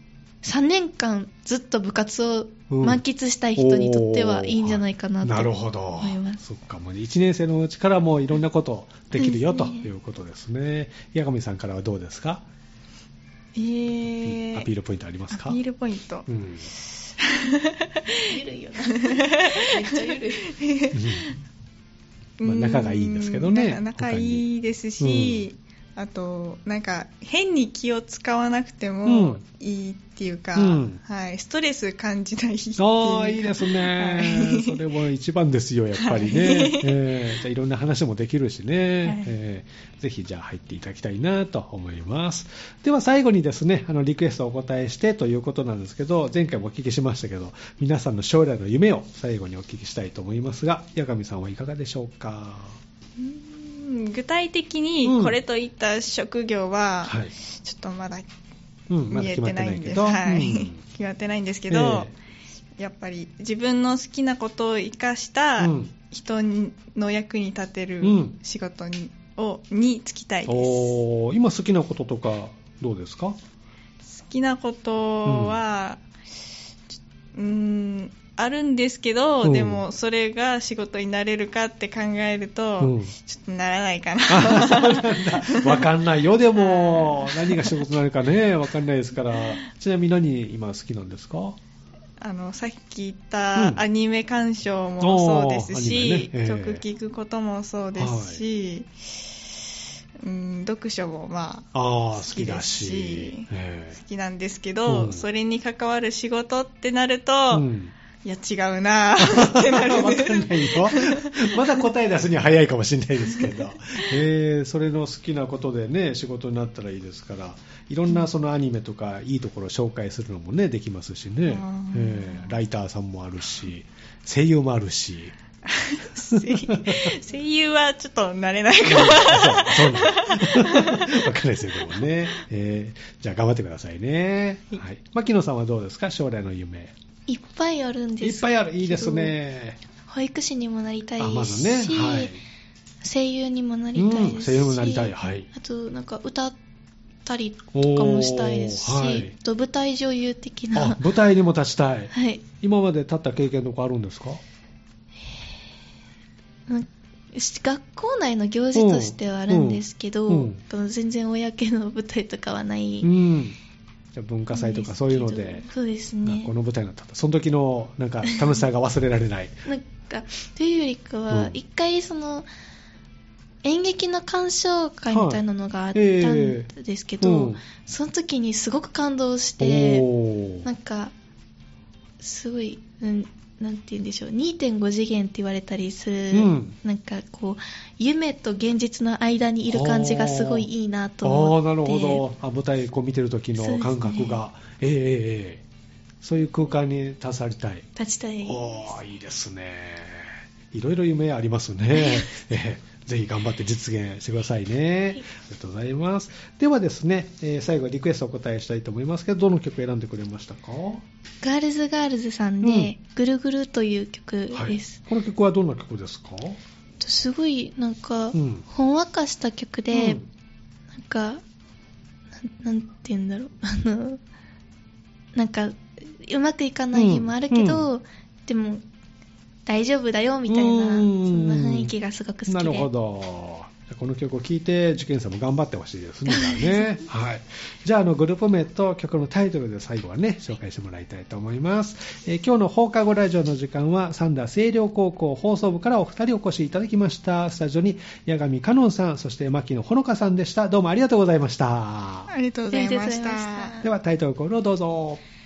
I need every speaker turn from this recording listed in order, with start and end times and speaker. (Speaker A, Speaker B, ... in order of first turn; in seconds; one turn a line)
Speaker A: 0.4-6.4
Speaker B: 2.7-3.0
Speaker B: 3.6-12.4
Speaker A: 9.2-9.9
Speaker C: 13.5-14.7
Speaker B: 14.2-15.6
Speaker C: 15.3-16.2
Speaker B: 16.3-16.7
Speaker C: 17.0-21.3
Speaker A: 18.1-20.6
Speaker B: 20.9-21.3
Speaker C: 22.4-34.8
Speaker B: 22.4-24.4
Speaker B: 25.0-25.4
Speaker B: 29.1-29.4
Speaker B: 30.6-31.0
Speaker B: 32.8-52.8
Speaker C: 36.0-37.0
Speaker C: 39.0-39.3
Speaker C: 53.2-58.3
Speaker B: 55.0-55.4
Speaker B: 57.0-57.3
Speaker B: 58.9-60.8
Speaker C: 59.1-62.1
Speaker B: 61.7-62.1
Speaker C: 62.8-71.0
Speaker B: 65.6-65.9
Speaker B: 68.0-68.3
Speaker B: 70.5-73.4
Speaker C: 74.0-76.0
Speaker B: 75.2-75.6
Speaker C: 77.3-85.9
Speaker B: 79.4-79.8
Speaker B: 82.8-83.1
Speaker B: 84.3-91.6
Speaker C: 86.5-87.8
Speaker C: 92.2-98.9
Speaker B: 93.5-93.8
Speaker B: 95.0-96.8
Speaker B: 98.0-98.4
Speaker C: 100.2-107.7
Speaker B: 101.7-104.0
Speaker B: 104.9-105.2
Speaker B: 107.5-107.9
Speaker C: 108.2-111.7
Speaker B: 109.2-125.3
Speaker C: 113.3-113.6
Speaker C: 121.5-122.6
Speaker C: 125.7-131.2
Speaker B: 126.3-127.2
Speaker B: 128.8-136.9
Speaker A: 137.3-139.3
Speaker B: 138.2-139.8
Speaker A: 140.1-142.3
Speaker B: 141.2-142.4
Speaker A: 143.0-146.6
Speaker B: 143.9-145.5
Speaker A: 147.2-151.0
Speaker B: 147.7-149.3
Speaker B: 150.7-154.4
Speaker A: 152.1-152.4
Speaker A: 156.7-163.1
Speaker B: 158.7-160.6
Speaker B: 163.0-163.6
Speaker B: 164.1-165.7
Speaker A: 164.5-166.5
Speaker B: 166.2-169.6
Speaker A: 168.2-168.6
Speaker A: 169.6-172.5
Speaker B: 171.3-171.5
Speaker A: 173.6-180.1
Speaker B: 175.1-175.4
Speaker B: 175.9-176.7
Speaker B: 177.2-177.6
Speaker B: 179.6-180.7
Speaker A: 180.6-181.1
Speaker A: 182.2-192.2
Speaker B: 186.3-186.7
Speaker B: 189.7-190.7
Speaker B: 191.2-195.6
Speaker A: 193.6-194.4
Speaker B: 196.2-197.8
Speaker A: 197.9-198.9
Speaker B: 198.4-211.0
Speaker A: 201.9-202.4
Speaker A: 211.4-215.0
Speaker B: 212.6-212.9
Speaker B: 214.5-216.6
Speaker A: 217.0-220.2
Speaker B: 218.3-218.6
Speaker B: 219.9-220.2
Speaker A: 220.9-221.4
Speaker A: 222.4-224.2
Speaker A: 225.3-228.8
Speaker B: 226.9-227.9
Speaker A: 229.7-232.9
Speaker B: 230.5-231.9
Speaker B: 232.5-252.3
Speaker A: 236.3-236.9
Speaker C: 252.3-253.9
Speaker A: 252.7-253.8
Speaker B: 253.8-255.2